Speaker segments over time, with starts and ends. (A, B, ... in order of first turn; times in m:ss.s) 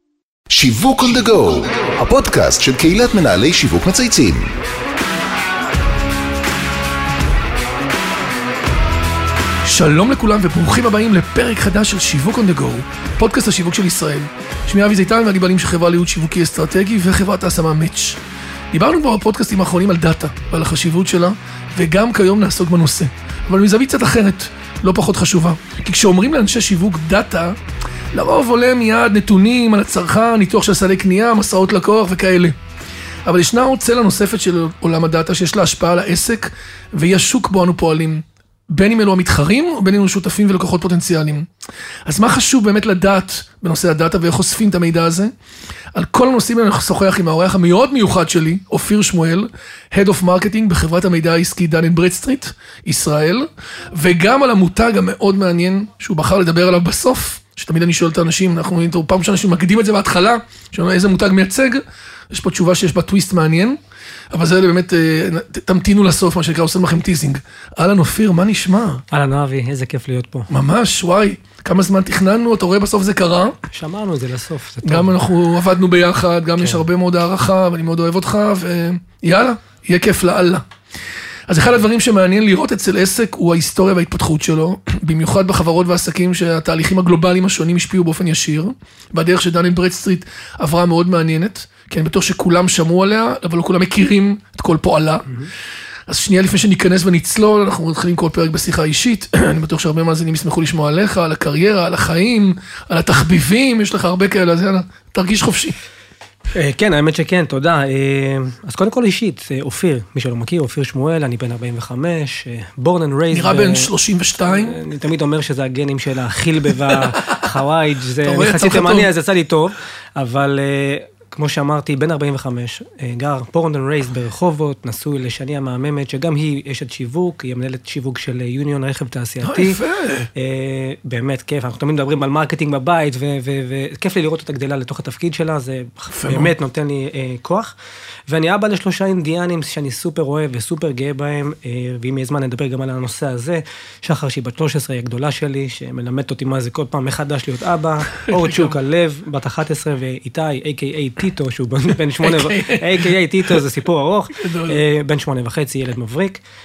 0:00.5-0:04.5 A
0:09.6-0:18.2 B
0:18.7-0:27.6 B
0:28.1-0:32.5 B
0:33.2-0:41.5 B
0:42.0-0:45.3 B
0:45.9-1:03.8 B
1:04.3-1:09.0 B
1:09.1-1:10.5 C
1:10.5-1:13.6 B
1:13.7-1:15.1 C
1:14.8-1:20.6 B
1:21.5-1:35.3 B
1:36.1-1:45.8 B
1:46.5-1:53.9 C
1:53.3-1:54.8 B
1:54.4-2:09.8 C
1:58.2-1:59.1 B
2:09.4-2:10.3 B
2:10.3-2:17.7 C
2:16.1-2:16.5 B
2:18.3-2:36.4 C
2:28.3-2:28.7 B
2:32.2-2:33.1 B
2:34.4-2:34.8 B